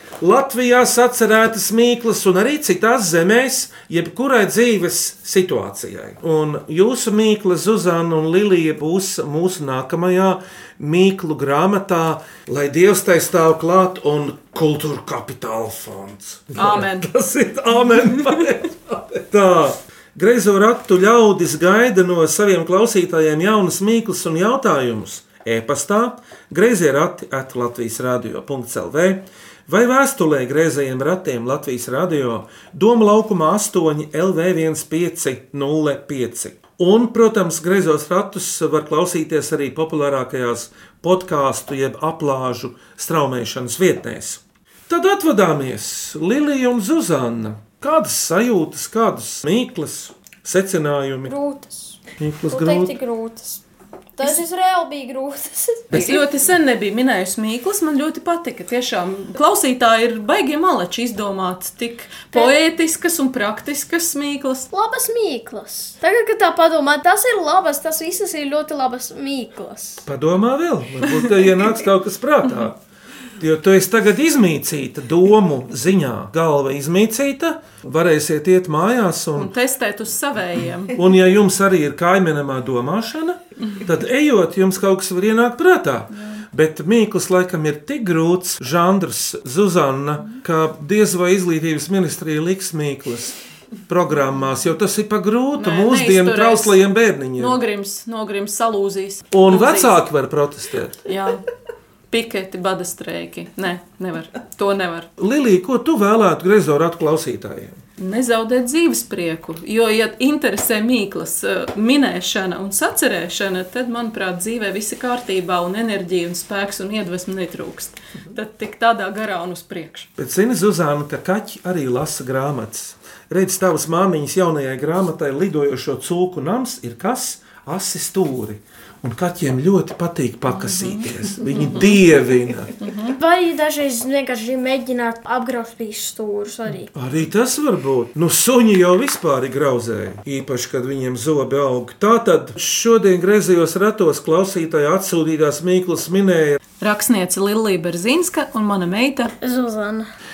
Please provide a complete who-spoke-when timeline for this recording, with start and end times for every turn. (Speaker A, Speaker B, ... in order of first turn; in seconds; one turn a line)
Speaker A: 0.2-51.4
Speaker B: 16.6-17.1
Speaker C: 51.2-53.6
Speaker A: 52.2-52.9
Speaker C: 54.2-56.2
Speaker A: 55.9-56.2
Speaker B: 55.9-64.7
Speaker C: 64.7-70.0
Speaker A: 70.1-72.8
Speaker A: 73.4-79.5
Speaker B: 79.4-81.1
Speaker A: 80.9-97.6
Speaker B: 95.6-96.8
Speaker B: 97.4-100.0
Speaker A: 99.3-101.0
Speaker B: 101.1-101.5
Speaker B: 102.1-105.1
Speaker A: 105.2-107.8
Speaker B: 108.0-120.1
Speaker A: 120.2-132.7
Speaker B: 130.5-131.9
Speaker B: 132.8-133.2
Speaker C: 133.2-136.9
Speaker A: 136.9-146.6
Speaker B: 146.8-149.3
Speaker C: 149.4-150.1